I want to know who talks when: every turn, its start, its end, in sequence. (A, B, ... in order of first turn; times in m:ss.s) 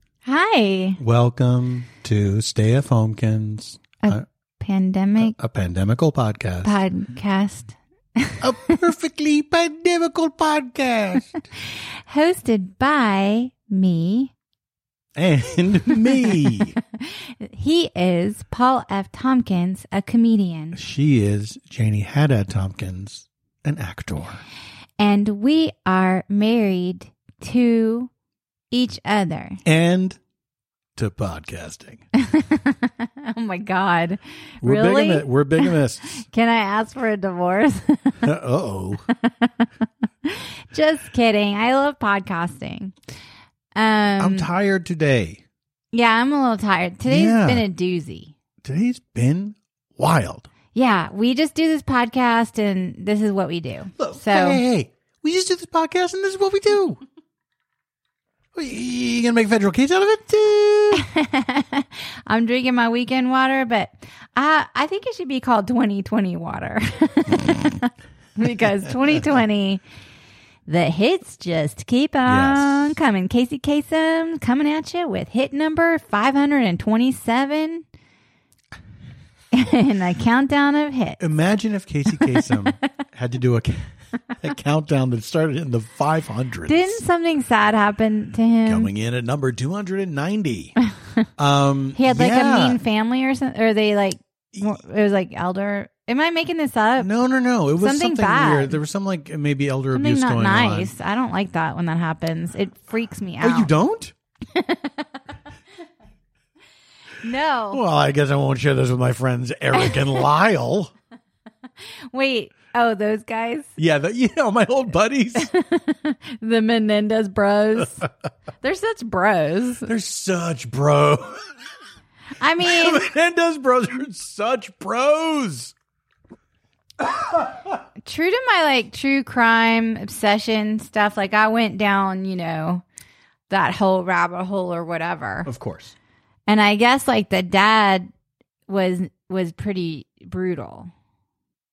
0:00.2-0:01.0 A
0:01.0-0:04.2 B
0:04.0-0:05.4 A
0:05.2-0:06.7 B
0:06.6-0:08.7 A
0:08.4-0:11.4 B
0:12.1-0:14.3 A
0:15.2-0:16.8 B
0:17.0-0:20.8 A
0:20.7-0:24.4 B
0:25.0-0:28.1 A
0:28.7-0:29.6 A
0:29.6-0:30.2 B
0:31.0-0:32.0 B
0:32.2-0:38.2 A
0:34.6-0:36.2 B
0:38.2-0:39.0 B
0:39.1-0:39.7 A
0:40.2-0:42.9 A
0:43.8-0:44.5 A
0:44.2-0:45.4 B
0:45.9-0:48.3 A
0:47.1-0:47.6 B
0:48.6-0:50.5 B
0:50.7-0:54.6 A
0:54.0-0:57.0 B
0:58.5-1:01.0 B
1:00.9-1:09.8 A
1:10.7-1:17.8 A
1:12.3-1:12.9 B
1:19.5-1:21.2 A
1:21.2-1:23.8 B
1:24.4-1:27.0 B
1:26.7-1:28.9 A
1:28.6-1:30.7 B
1:31.4-1:32.8 B
1:31.9-1:37.1 A
1:37.0-1:40.9 B
1:37.8-1:38.8 A
1:39.9-1:43.7 A
1:43.4-1:44.1 B
1:44.5-1:45.1 A
1:47.2-1:47.8 A
1:47.7-1:50.9 B
1:49.7-1:50.2 A
1:52.1-1:53.8 A
1:53.8-1:55.5 B
1:55.4-1:58.1 A
1:58.6-1:59.9 A
1:59.8-2:01.4 B
2:02.4-2:03.0 A
2:02.6-2:05.7 B
2:07.0-2:07.5 B
2:08.0-2:12.8 A
2:13.5-2:15.5 A
2:15.4-2:15.9 B
2:16.5-2:18.1 A
2:18.7-2:20.9 A